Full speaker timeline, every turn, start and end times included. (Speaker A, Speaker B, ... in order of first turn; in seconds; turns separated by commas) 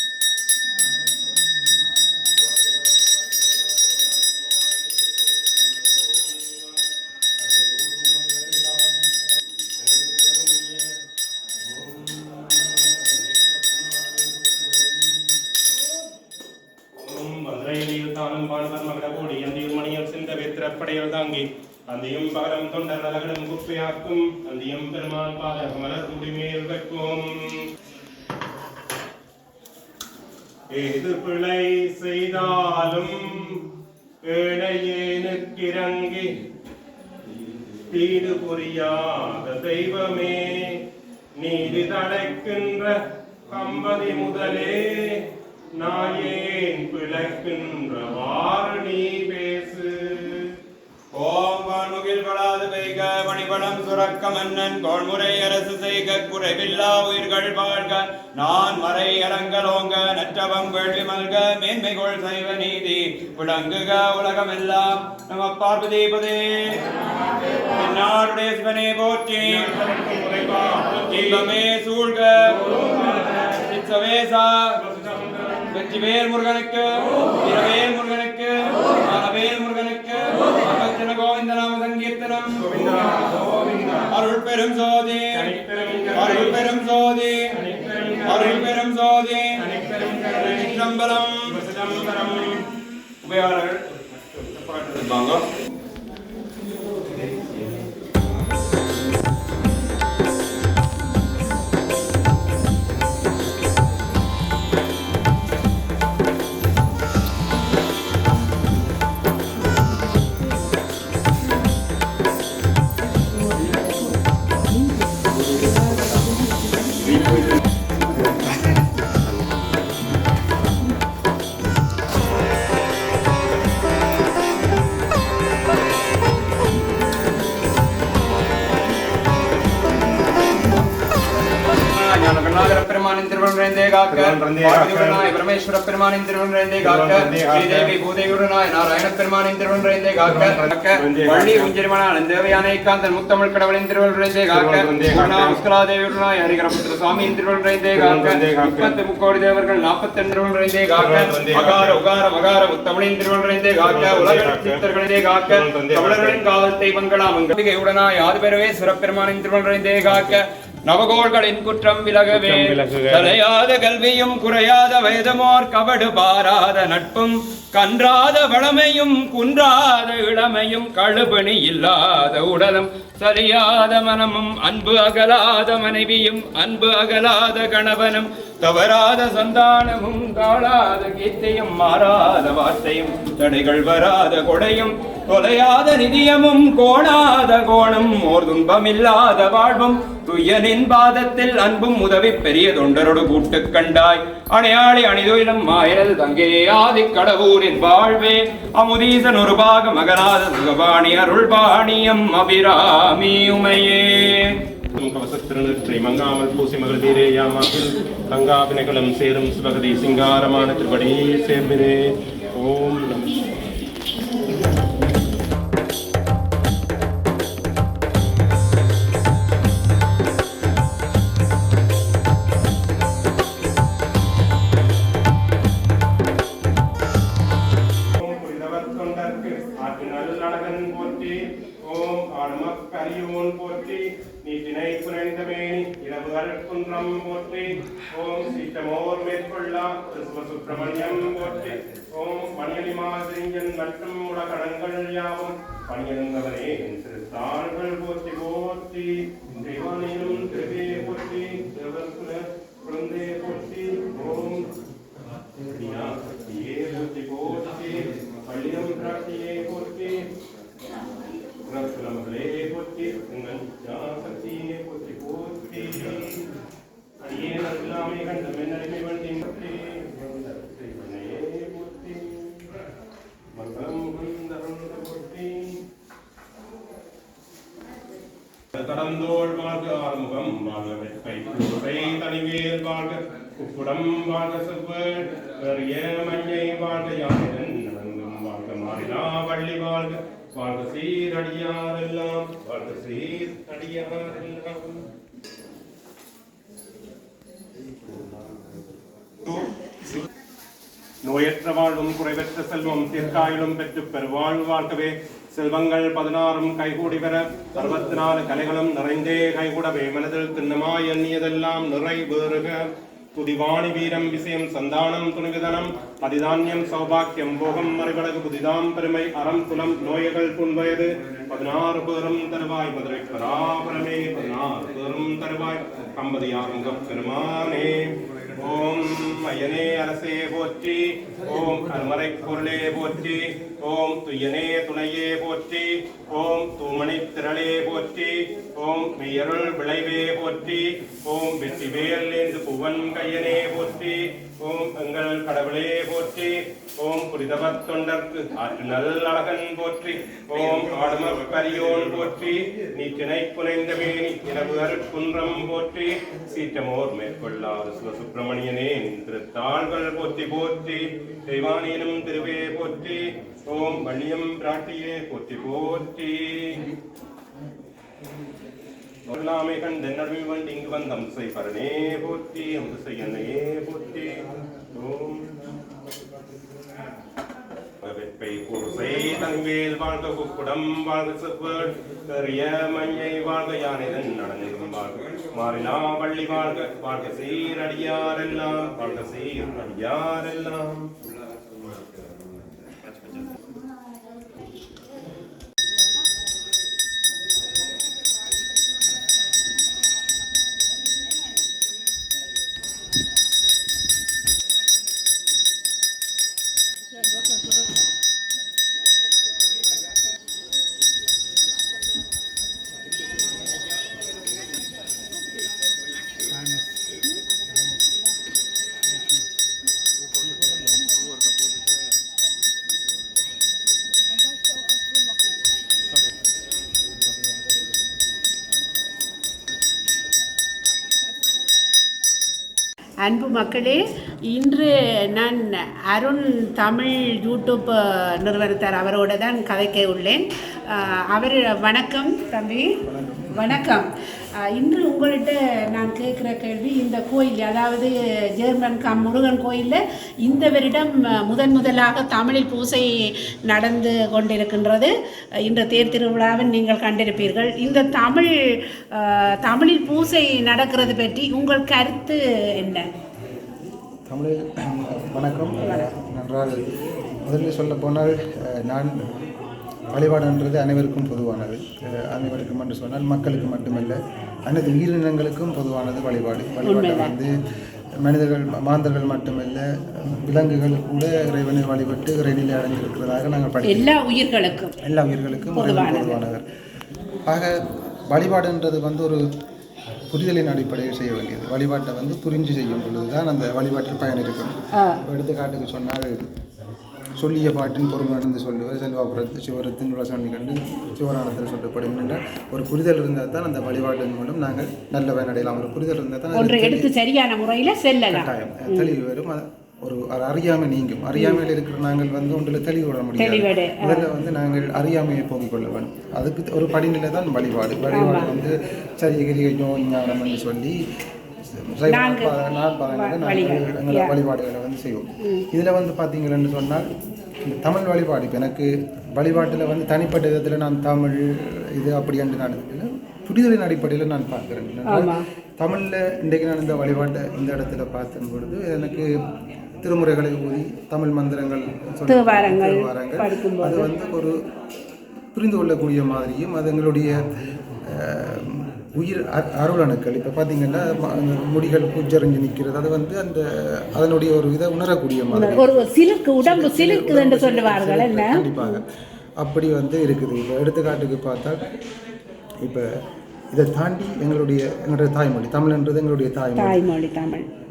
Speaker A: 4.4-6.8, Speaker A: 7.4-11.0, Speaker A: 11.6-15.0, Speaker A: 16.9-27.7, Speaker A: 30.7-33.7, Speaker A: 34.2-36.3, Speaker A: 37.9-40.8, Speaker A: 41.4-42.9, Speaker A: 43.5-50.5, Speaker B: 51.1-66.8, Speaker B: 67.7-69.7, Speaker A: 69.5-71.5, Speaker B: 71.1-74.8, Speaker A: 72.8-73.3, Speaker A: 74.8-75.6, Speaker B: 75.7-83.0, Speaker A: 82.6-84.1, Speaker B: 84.1-85.6, Speaker A: 85.3-86.6, Speaker B: 86.1-87.5, Speaker A: 87.5-88.6, Speaker B: 88.2-91.5, Speaker A: 89.6-90.6, Speaker A: 91.5-92.6, Speaker B: 93.2-95.5, Speaker B: 131.8-204.6, Speaker A: 134.1-135.3, Speaker A: 136.8-137.9, Speaker A: 140.2-141.7, Speaker A: 144.5-145.6, Speaker A: 147.9-149.0, Speaker A: 150.9-152.0, Speaker A: 153.8-154.8, Speaker A: 155.4-156.4, Speaker A: 162.3-163.3, Speaker A: 204.9-213.4, Speaker A: 228.1-254.7, Speaker A: 255.6-260.2, Speaker A: 261.6-266.4, Speaker A: 267.2-272.5, Speaker A: 273.5-275.8, Speaker A: 278.7-295.1, Speaker A: 301.2-366.8, Speaker A: 369.3-374.4, Speaker A: 374.9-375.6, Speaker A: 378.0-391.1, Speaker C: 433.2-443.0, Speaker D: 443.0-443.8, Speaker C: 443.5-444.1, Speaker C: 444.6-458.5, Speaker C: 459.1-463.1, Speaker D: 464.3-466.8, Speaker C: 465.8-466.1, Speaker D: 467.4-469.2, Speaker D: 470.1-477.5, Speaker C: 476.8-477.3, Speaker D: 478.2-484.1, Speaker C: 483.8-484.9, Speaker D: 485.0-486.6, Speaker C: 485.7-486.4, Speaker D: 487.5-489.4, Speaker D: 490.3-496.5, Speaker C: 494.9-495.2, Speaker D: 497.4-507.1, Speaker C: 506.5-509.1, Speaker D: 508.3-521.0, Speaker C: 511.4-511.6, Speaker C: 513.4-514.3, Speaker C: 518.1-518.5, Speaker D: 521.6-527.1, Speaker C: 522.1-522.5, Speaker C: 523.1-524.3, Speaker C: 525.4-525.7, Speaker D: 527.6-539.4, Speaker C: 535.1-535.4, Speaker D: 540.0-544.6, Speaker C: 542.3-544.1, Speaker D: 545.5-547.4, Speaker D: 548.0-555.9, Speaker C: 555.5-559.0, Speaker D: 556.6-559.0, Speaker D: 559.6-561.9, Speaker D: 562.8-563.1, Speaker D: 563.7-567.0, Speaker C: 566.8-567.6